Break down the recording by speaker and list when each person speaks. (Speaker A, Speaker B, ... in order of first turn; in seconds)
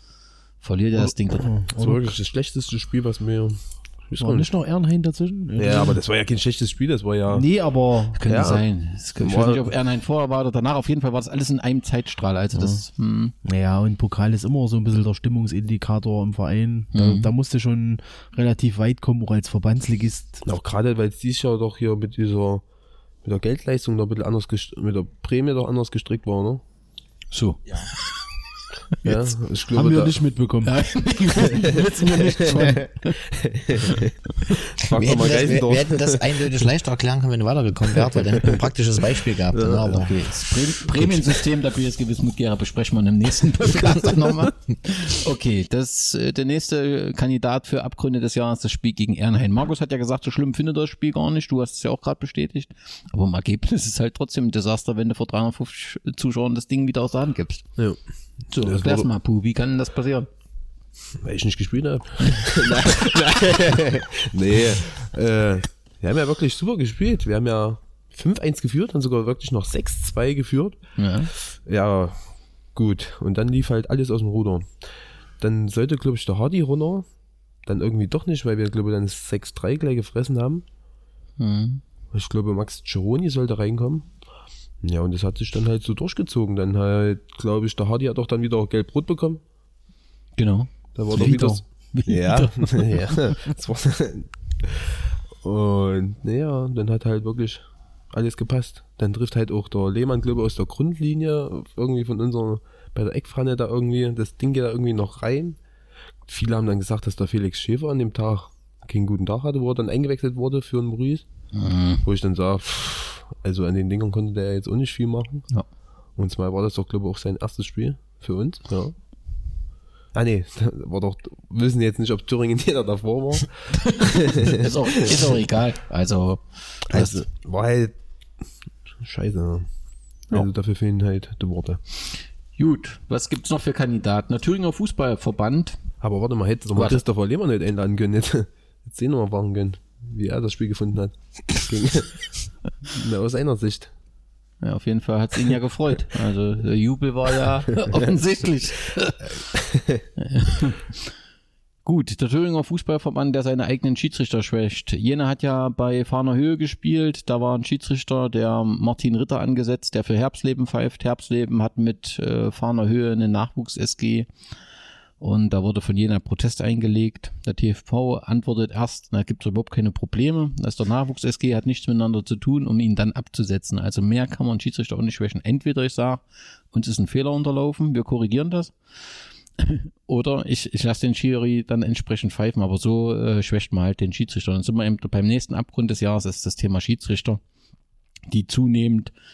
Speaker A: 0.6-1.5, 8.2-13.3, 16.9-17.3, 27.3-28.2, 30.6-33.1, 39.9-57.6, 58.5-60.3, 71.0-71.3, 81.4-81.8, 90.4-93.0, 111.5-112.0, 124.6-127.2, 132.6-135.8, 136.7-137.0, 144.6-149.2, 150.2-151.1, 151.8-164.3, 165.2-178.8, 179.6-187.4, 188.3-189.1
Speaker B: 1.4-2.1, 4.2-6.0, 7.3-8.2, 13.4-20.4, 29.7-30.7, 91.1-91.6
Speaker C: 1.7-4.5, 5.6-7.5, 8.2-8.6, 9.2-9.7, 20.4-22.6, 23.2-26.6, 29.0-30.2, 32.5-32.9, 33.4-34.1, 34.8-36.4, 39.5-40.0, 57.8-59.1, 61.2-71.0, 71.5-72.2, 72.7-74.7, 75.4-77.0, 77.6-80.6, 82.1-84.1, 84.8-89.4, 90.9-94.7, 95.4-105.6, 106.2-115.5, 116.1-118.9, 120.1-124.7, 126.9-127.9, 129.0-129.7, 130.3-131.8, 136.0-142.3, 143.0-143.9
Speaker D: 34.9-40.1